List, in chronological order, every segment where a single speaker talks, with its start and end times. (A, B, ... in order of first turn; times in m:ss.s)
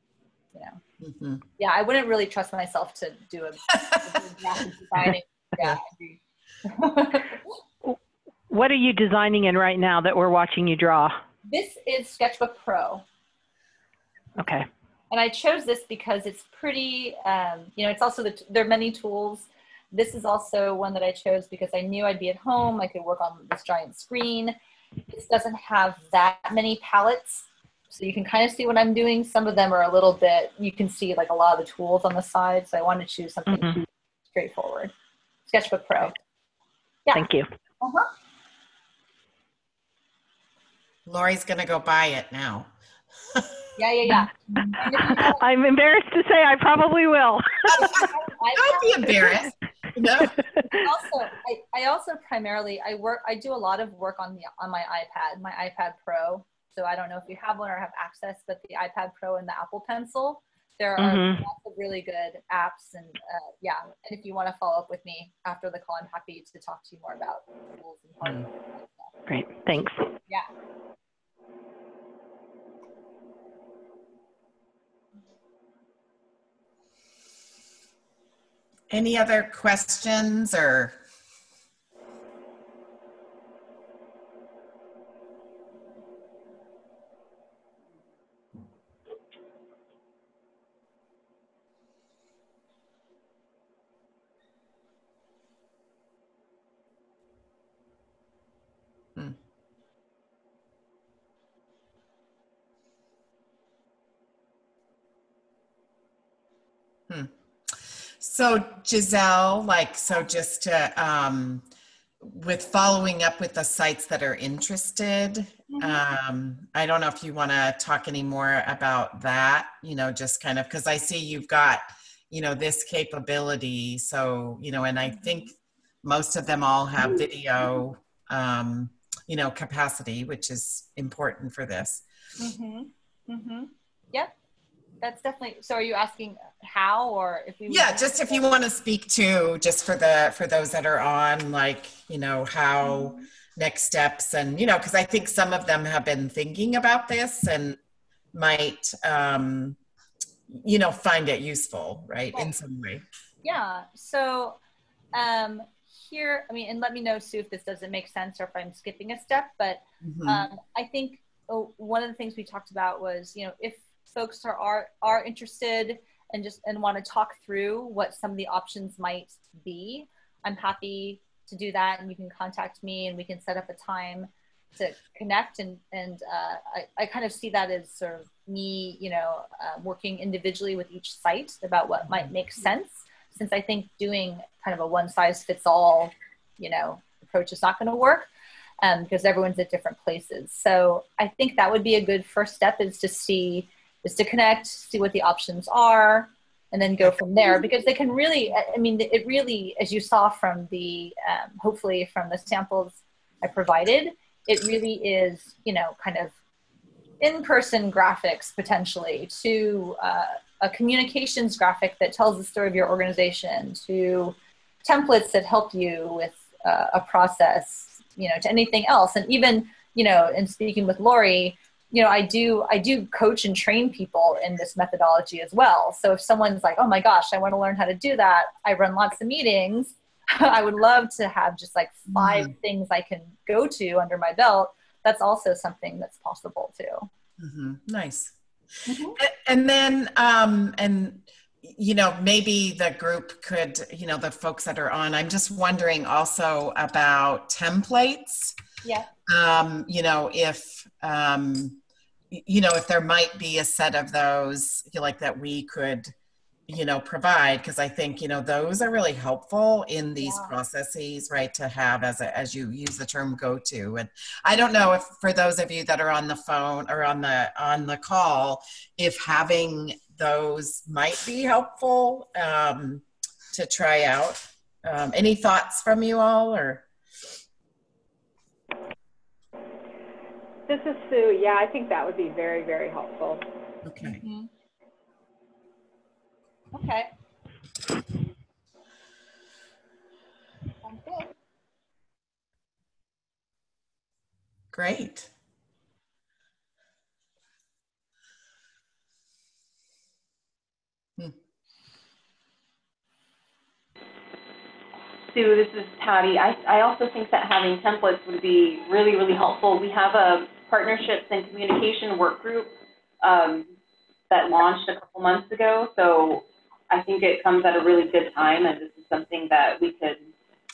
0:00.5-0:00.8 A
0:01.0-0:01.4 B
0:01.6-0:07.4 A
0:08.5-0:11.2 C
0:11.4-0:13.0 A
0:14.4-0:14.7 C
0:15.1-0:24.6 A
0:25.1-0:34.9 A
0:33.5-0:33.8 C
0:35.5-0:36.2 A
0:37.1-0:37.5 C
0:37.8-0:38.1 A
0:41.1-0:42.7 B
0:43.3-0:43.6 B
0:43.8-0:45.4 A
0:44.6-0:47.9 C
0:47.7-0:50.4 B
0:47.8-0:49.3 A
0:50.7-1:09.1 A
1:01.0-1:01.4 C
1:09.3-1:10.1 C
1:18.9-1:21.0 B
1:47.1-1:51.7 B
1:52.2-2:12.0 B
1:55.7-1:56.0 A
2:05.1-2:05.4 A
2:12.4-2:14.3 A
2:15.0-2:18.5 A
2:17.7-2:27.8 B
2:22.8-2:23.2 A
2:28.3-2:29.8 B
2:30.5-2:33.0 B
2:33.4-2:34.6 A
2:35.1-3:08.3 A
2:40.0-2:40.5 B
3:08.8-3:26.3 A
3:27.2-3:57.1 A
3:52.1-3:52.5 B
3:57.4-3:58.4 B
3:58.9-3:59.2 A
3:59.2-4:08.6 B
4:09.3-4:11.8 B
4:12.3-4:16.1 B
4:16.7-4:36.8 B
4:20.2-4:20.5 A
4:40.7-4:43.4 D
4:43.8-4:44.2 B
4:44.0-4:44.5 A
4:46.7-4:47.1 A
4:50.8-4:51.3 A
4:54.7-4:55.3 B
5:05.3-5:13.7 E
5:14.3-5:20.2 E